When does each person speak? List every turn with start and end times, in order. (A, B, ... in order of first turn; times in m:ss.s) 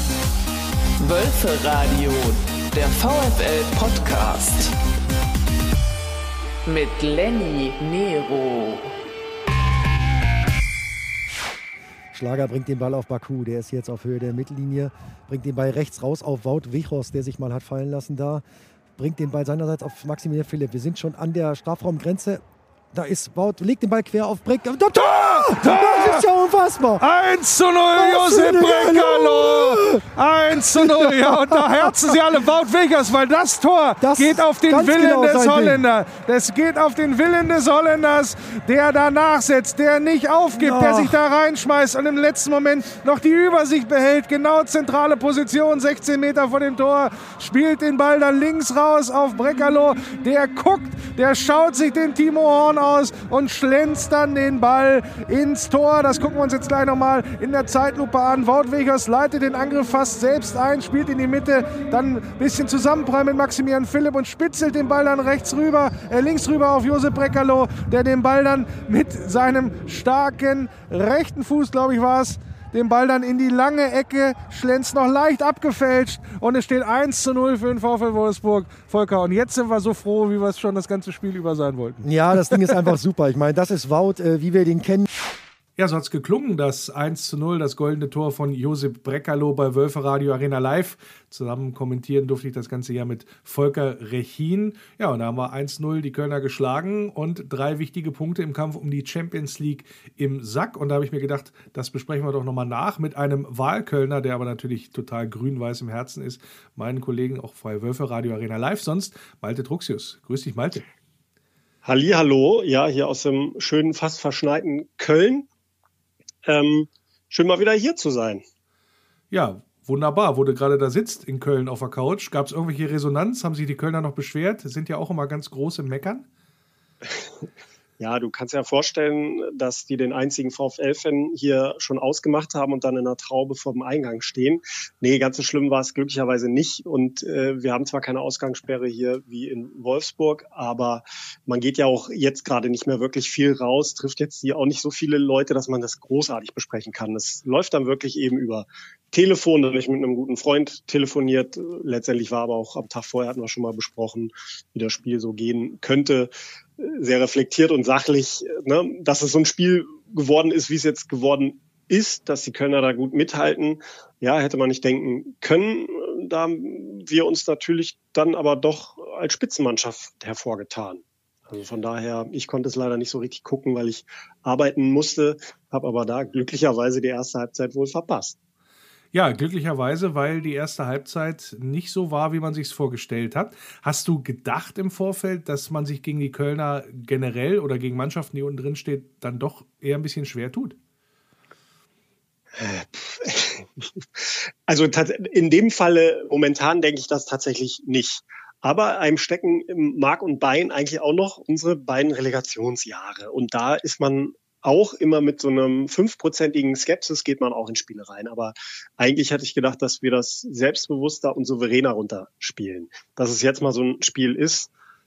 0:01.0-0:04.7 A
0:06.6-0:08.9 A
0:12.1-0:18.4 B
0:19.0-0:27.0 B
0:25.0-0:26.2 C
0:27.0-1:22.6 C
0:27.9-0:30.0 B
0:30.7-0:32.2 B
0:34.0-0:35.8 B
0:40.5-0:41.2 B
1:22.0-1:25.1 B
1:25.8-1:50.8 C
1:51.8-1:55.5 D
1:56.4-1:58.4 D
1:59.3-2:06.3 C
2:08.0-2:58.4 D
2:59.1-3:10.8 C
3:12.6-3:34.7 D